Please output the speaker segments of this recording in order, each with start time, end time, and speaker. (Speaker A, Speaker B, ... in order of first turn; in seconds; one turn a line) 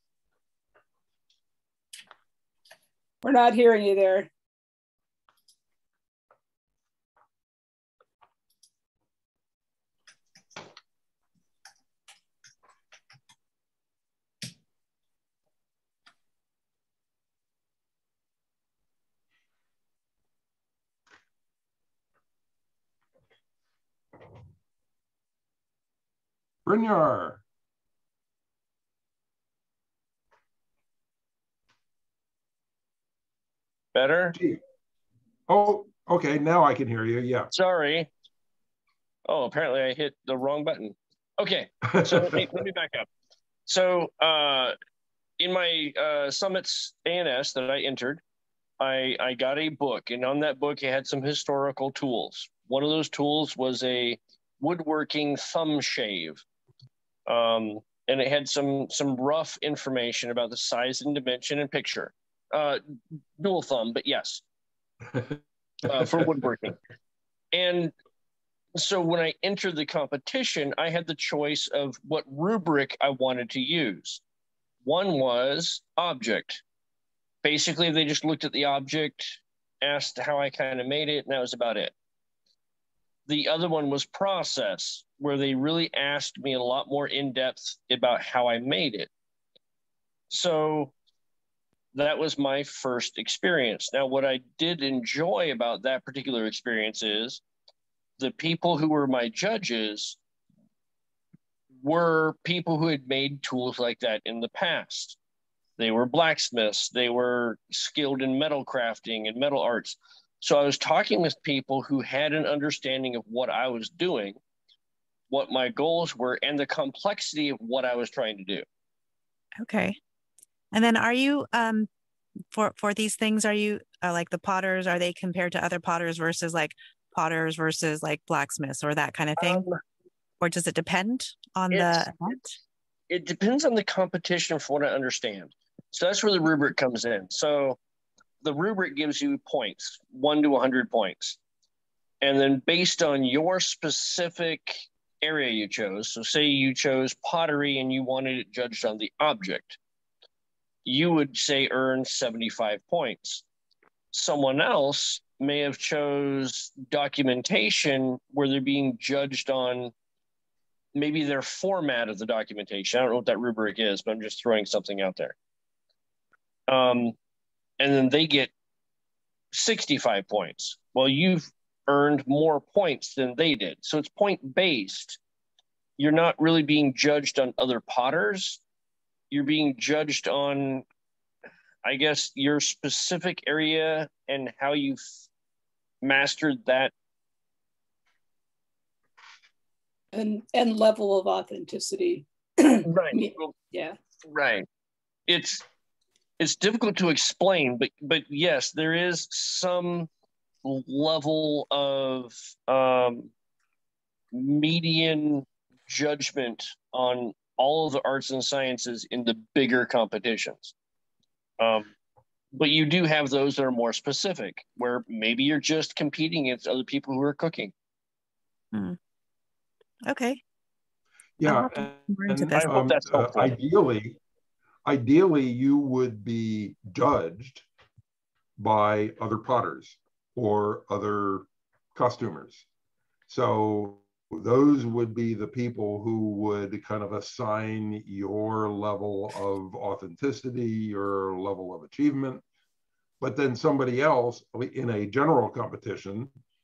Speaker A: 3.2-4.3
Speaker B: 26.7-27.4
Speaker C: 33.9-34.4
Speaker B: 34.3-34.6
Speaker B: 35.5-37.5
Speaker C: 37.5-38.1
Speaker C: 39.3-43.1
Speaker B: 41.9-42.5
Speaker C: 43.7-44.8
Speaker C: 45.4-48.2
Speaker C: 48.8-56.4
Speaker C: 57.3-62.8
Speaker C: 63.4-64.4
Speaker C: 65.9-66.8
Speaker C: 67.5-67.9
Speaker C: 68.8-74.2
Speaker C: 74.8-76.6
Speaker C: 77.4-81.9
Speaker C: 83.3-89.1
Speaker C: 90.3-90.9
Speaker C: 91.9-97.4
Speaker C: 98.2-100.2
Speaker C: 101.8-105.2
Speaker C: 105.8-114.4
Speaker C: 115.3-118.7
Speaker D: 119.6-120.0
Speaker D: 120.7-121.9
Speaker D: 122.5-129.7
Speaker C: 129.4-129.8
Speaker D: 130.4-132.6
Speaker C: 131.7-132.5
Speaker C: 133.1-137.8
Speaker C: 138.4-141.4
Speaker C: 142.2-149.8
Speaker C: 150.8-153.4
Speaker C: 154.1-159.9
Speaker C: 160.9-165.3
Speaker C: 166.7-167.2
Speaker C: 167.8-168.5
Speaker C: 169.5-175.2
Speaker C: 176.0-178.6
Speaker C: 179.3-180.8
Speaker C: 181.8-185.0
Speaker C: 186.0-186.9
Speaker A: 190.1-194.0
Speaker C: 192.8-193.5
Speaker C: 194.2-194.7
Speaker C: 195.3-195.6
Speaker C: 196.4-200.1
Speaker C: 200.6-203.3
Speaker C: 204.3-210.7
Speaker C: 211.6-211.9
Speaker C: 212.6-217.7
Speaker D: 220.1-220.4
Speaker B: 221.4-224.2
Speaker D: 221.4-222.7
Speaker C: 222.5-223.6
Speaker B: 224.9-227.7
Speaker B: 228.6-232.7
Speaker B: 233.3-242.4
Speaker B: 243.2-246.3